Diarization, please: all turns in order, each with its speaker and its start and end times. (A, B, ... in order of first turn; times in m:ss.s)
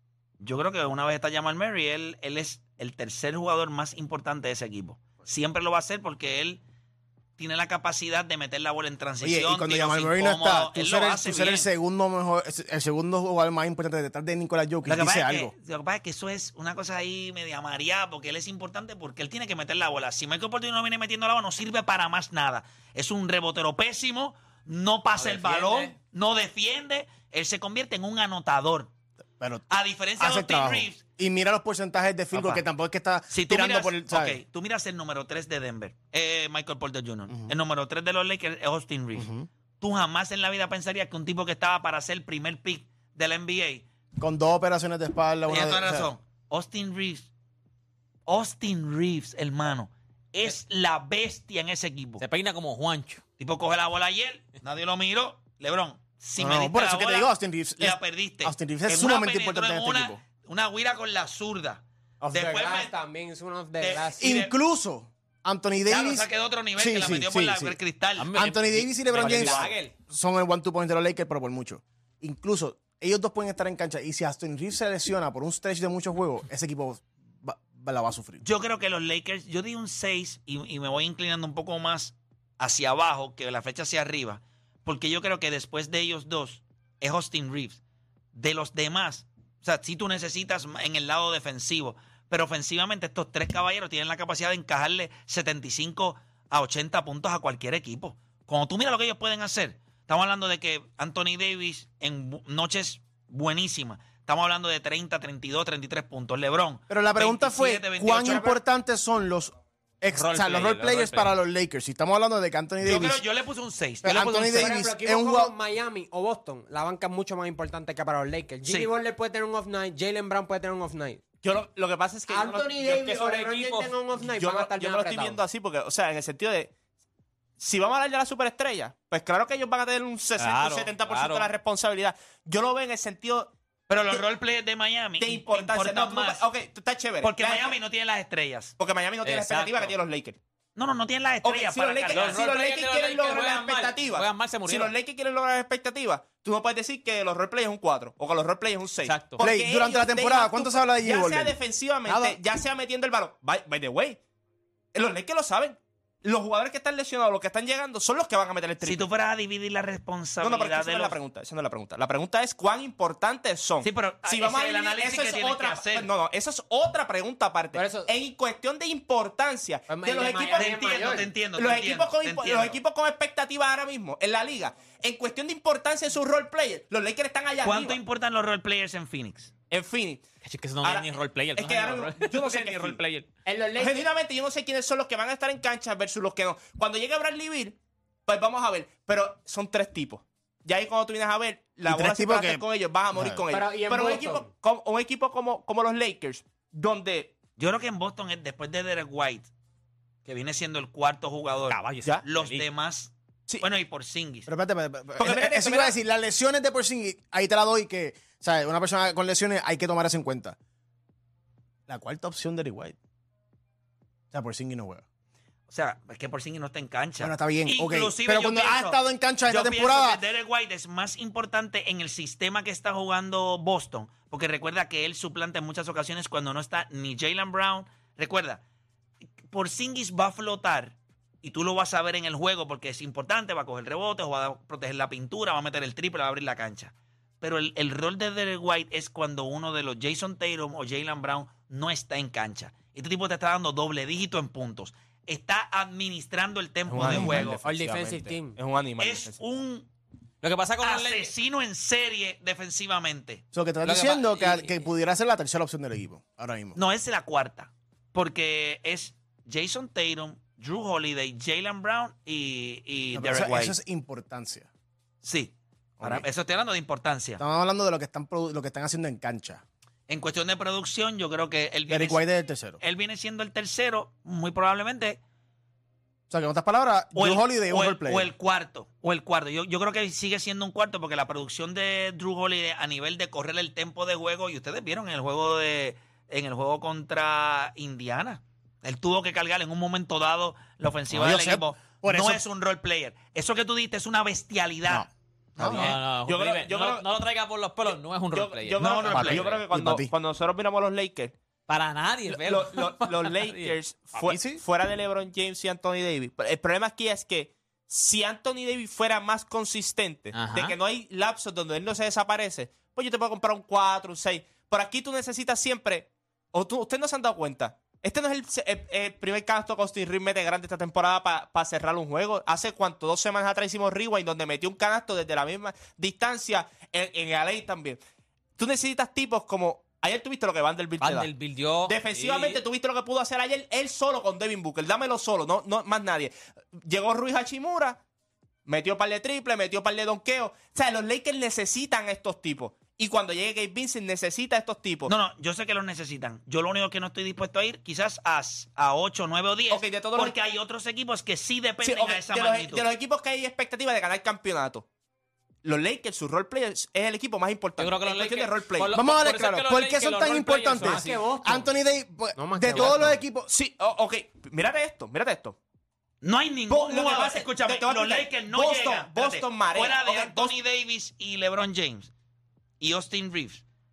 0:00.4-0:06.6 A
0:07.4-0:11.7 A
0:09.2-0:15.5 B
0:14.8-0:28.9 A
0:25.1-0:25.9 C
0:29.4-0:29.6 B
0:29.7-0:31.0 A
0:30.2-0:34.4 B
0:32.3-0:32.6 A
0:33.3-0:39.3 A
0:39.1-0:39.5 B
0:39.8-0:43.8 A
0:44.2-0:46.1 B
0:45.5-0:47.3 A
0:48.2-0:52.2 A
0:52.2-0:53.2 C
0:53.4-1:02.9 A
0:56.4-1:00.2 B
1:02.2-1:04.3 D
1:03.8-1:04.5 A
1:04.2-1:07.8 B
1:05.9-1:08.4 A
1:08.2-1:09.9 C
1:08.3-1:18.4 B
1:09.2-1:09.7 E
1:18.4-1:27.8 A
1:28.3-1:48.5 A
1:46.9-1:53.2 B
1:50.1-1:51.3 C
1:52.8-1:54.7 A
1:54.0-1:55.5 B
1:54.5-2:01.2 D
1:58.6-1:58.9 A
2:01.4-2:03.3 E
2:02.3-2:05.4 D
2:03.1-2:03.9 C
2:04.2-2:06.7 E
2:07.6-2:13.5 E
2:10.4-2:11.5 C
2:13.9-2:16.4 A
2:15.2-2:17.8 E
2:17.2-2:18.7 A
2:18.8-2:20.4 E
2:19.2-2:19.9 C
2:20.8-2:22.4 A
2:21.4-2:34.2 E
2:22.1-2:24.9 C
2:29.0-2:29.4 C
2:29.4-2:32.4 B
2:34.9-2:39.1 E
2:38.8-2:41.2 A
2:40.4-2:58.0 E
2:43.8-2:46.1 A
2:47.7-2:48.1 D
2:49.9-2:51.3 D
2:50.5-2:52.8 A
2:57.6-2:59.5 A
2:59.7-3:00.2 E
3:00.4-3:03.3 C
3:00.8-3:03.0 E
3:03.4-3:04.0 D
3:03.8-3:17.3 E
3:11.9-3:13.4 B
3:13.5-3:14.5 D
3:17.6-3:19.5 A
3:20.2-3:24.5 A
3:21.7-3:22.6 C
3:24.5-3:30.6 B
3:25.2-3:25.9 E
3:31.9-3:33.0 B
3:34.3-3:35.0 B
3:35.7-3:48.6 A
3:37.2-3:40.2 B
3:49.5-4:07.6 A
4:06.9-4:09.4 E
4:07.5-4:08.6 D
4:09.0-4:09.9 A
4:10.4-4:11.3 C
4:10.8-4:13.4 A
4:13.5-4:16.8 B
4:13.8-4:14.8 C
4:16.7-4:23.8 A
4:23.1-4:24.7 B
4:25.2-4:27.4 A
4:26.0-4:26.2 B
4:27.4-4:29.6 B
4:30.1-4:32.2 A
4:31.9-4:32.8 B
4:32.8-4:35.2 A
4:36.3-4:38.3 B
4:37.1-4:56.0 A
4:51.1-4:52.4 B
4:54.9-4:55.8 B
4:55.6-4:59.6 C
4:55.8-4:57.1 E
4:57.9-5:01.3 E
4:58.8-4:59.5 A
4:59.1-5:00.1 B
5:01.7-5:03.8 C
5:02.3-5:28.0 E
5:04.2-5:04.6 B
5:10.3-5:10.8 C
5:28.6-5:31.3 E
5:31.0-5:32.6 C
5:31.8-5:38.0 E
5:38.6-5:45.1 E
5:45.1-5:52.9 A
5:49.7-5:50.3 E
5:51.8-5:54.8 E
5:55.6-5:58.9 E
5:57.8-6:01.2 C
5:58.9-6:03.5 B
6:00.8-6:01.7 D
6:02.4-6:03.2 D
6:03.5-6:05.6 E
6:06.2-6:12.1 A
6:06.7-6:10.5 E
6:12.8-6:13.6 A